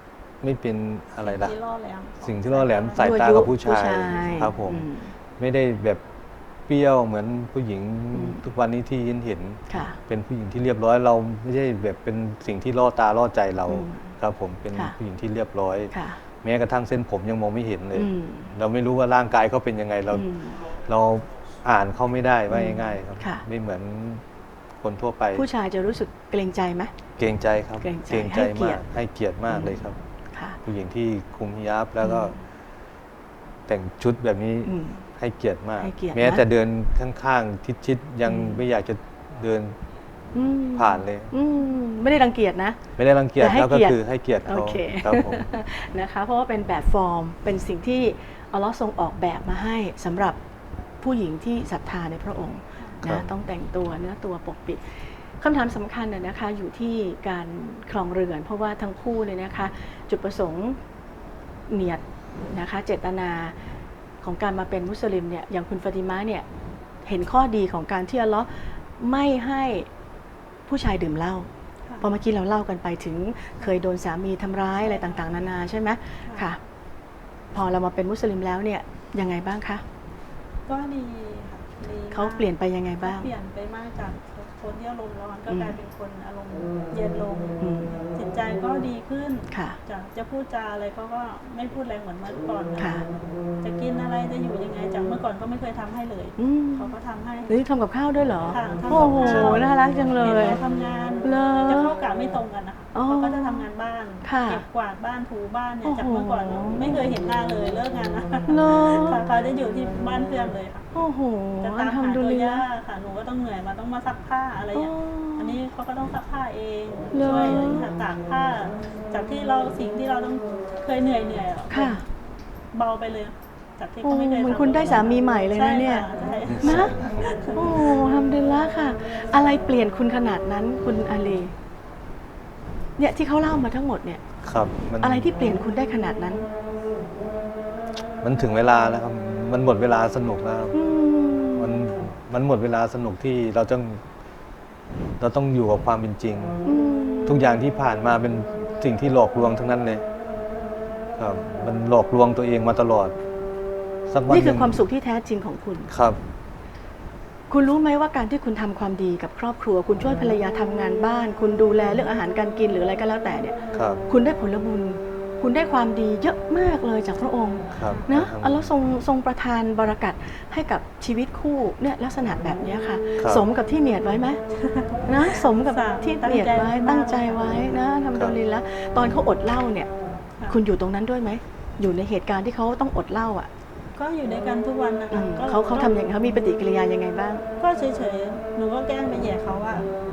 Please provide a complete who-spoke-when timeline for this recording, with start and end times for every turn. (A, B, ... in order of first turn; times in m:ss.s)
0:00.4-0:01.5 A
0:01.2-0:03.4 B
0:02.2-0:04.9 A
0:03.0-0:05.1 C
0:04.0-0:04.5 B
0:05.4-0:06.0 A
0:06.7-0:24.2 A
0:08.1-0:08.4 C
0:09.7-0:10.0 C
0:13.7-0:14.1 C
0:15.9-0:16.2 C
0:18.0-0:18.5 C
0:20.1-0:20.7 C
0:22.5-0:23.4 C
0:24.8-0:25.5 A
0:25.3-0:26.9 C
0:27.2-0:30.0 A
0:27.8-0:28.8 C
0:29.5-0:29.8 C
0:30.3-0:30.6 C
0:30.6-0:32.4 A
0:32.0-0:32.4 C
0:33.7-0:39.8 A
0:34.6-0:35.1 C
0:35.8-0:36.4 C
0:38.3-0:38.6 C
0:40.3-0:42.8 C
0:40.8-0:41.3 A
0:43.0-0:45.5 A
0:43.4-0:50.4 C
0:51.0-1:00.8 C
0:53.0-0:53.3 A
1:01.7-1:03.6 C
1:04.2-1:06.4 C
1:07.0-1:09.9 C
1:10.7-1:11.5 C
1:12.0-1:16.6 C
1:14.8-1:15.3 B
1:17.5-1:19.8 C
1:20.7-1:22.5 B
1:22.1-1:23.3 C
1:23.0-1:37.5 B
1:25.5-1:25.8 C
1:27.6-1:28.0 C
1:29.5-1:29.8 C
1:32.8-1:33.1 C
1:36.4-1:36.9 C
1:37.5-1:40.6 C
1:38.5-1:50.9 B
1:39.1-1:39.6 A
1:41.2-1:42.0 C
1:42.9-1:43.7 C
1:44.2-1:44.6 C
1:45.8-1:46.9 C
1:48.5-1:49.2 C
1:50.9-1:52.6 C
1:51.6-2:02.0 B
1:54.8-1:55.6 C
1:57.1-1:57.9 C
2:01.7-2:02.0 C
2:02.7-2:08.0 B
2:04.0-2:06.1 C
2:06.5-2:07.3 A
2:06.6-2:07.0 C
2:07.5-2:11.5 C
2:13.0-2:14.2 C
2:14.4-2:15.3 A
2:15.0-2:16.5 C
2:18.2-2:20.7 A
2:20.7-2:21.8 C
2:21.6-2:24.0 A
2:25.2-2:26.6 A
2:26.6-2:27.4 C
2:27.3-2:30.0 A
2:31.2-2:33.2 A
2:34.1-2:34.8 A
2:34.3-2:35.9 C
2:35.9-2:36.2 A
2:37.5-2:43.6 C
2:43.7-2:44.0 A
2:44.1-2:54.4 C
2:47.7-2:48.7 A
2:53.2-2:53.4 A
2:54.6-2:57.4 B
2:55.1-2:59.9 C
3:00.5-3:03.5 C
3:04.0-3:05.9 B
3:05.1-3:07.5 C
3:07.6-3:09.9 B